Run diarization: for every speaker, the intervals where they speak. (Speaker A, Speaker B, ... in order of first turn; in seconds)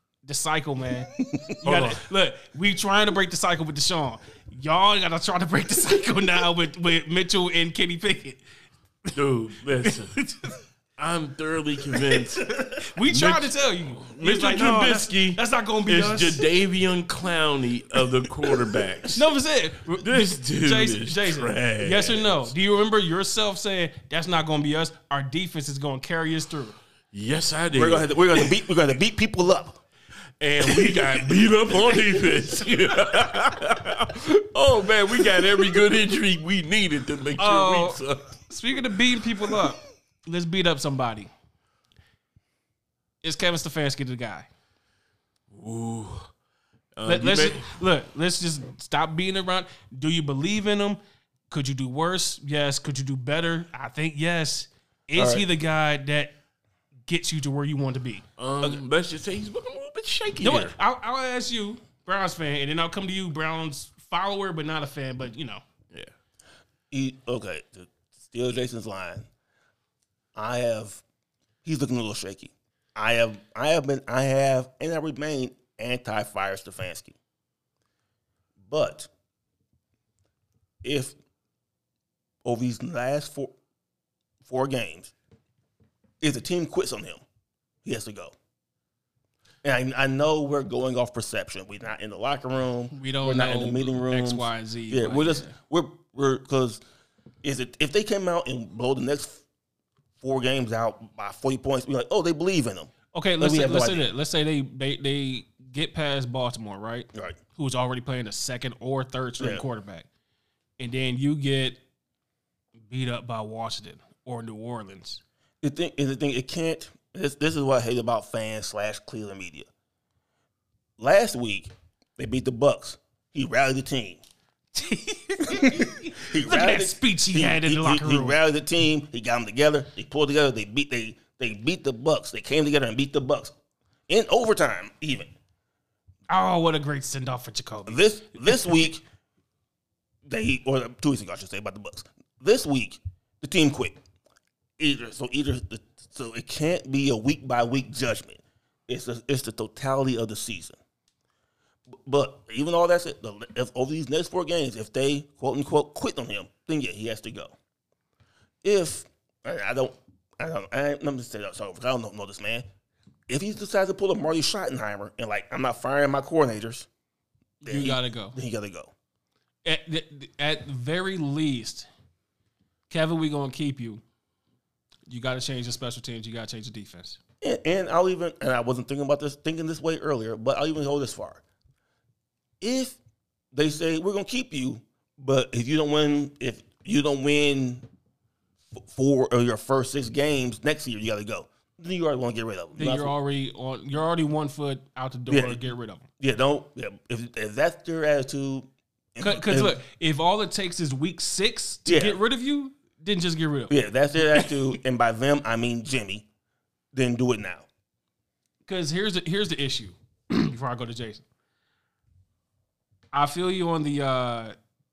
Speaker A: 0.2-8.4, 9.8-10.6, 12.0-16.4, 19.1-26.8, 37.4-41.3, 43.2-44.5, 47.0-51.0, 51.5-56.3, 57.1-58.2, 60.4-65.6, 92.9-95.5, 103.1-110.1, 110.8-111.8, 112.8-115.2, 124.7-128.4, 136.3-138.6, 167.6-168.3, 169.6-171.9, 172.9-174.0, 175.1-177.2, 192.8-196.0, 199.2-203.8, 208.7-211.2, 213.1-214.5
Speaker B: 1.6-2.0, 9.1-10.2, 11.0-19.2, 20.0-22.5, 27.1-28.5, 30.4-38.3, 45.5-46.3, 47.0-47.8, 58.4-60.7
Speaker C: 27.7-29.8, 30.6-31.3, 55.1-55.5, 66.9-69.3, 70.3-71.0, 71.6-77.1, 78.6-79.1, 80.8-81.2, 82.4-83.5, 84.4-85.1, 86.2-87.2, 87.8-88.3, 89.6-96.8, 97.4-99.4, 100.2-104.1, 109.4-109.6, 115.6-119.7, 121.0-124.2, 125.5-133.5, 134.1-135.3, 137.9-139.0, 140.2-144.0, 144.8-150.8, 151.9-157.5, 158.6-162.7, 163.3-166.9, 167.6-168.9, 177.4-181.4, 182.6-183.0, 183.5-187.8, 188.7-193.1, 195.3-195.6, 196.2-199.8, 201.8-202.2, 203.7-206.3, 206.9-207.7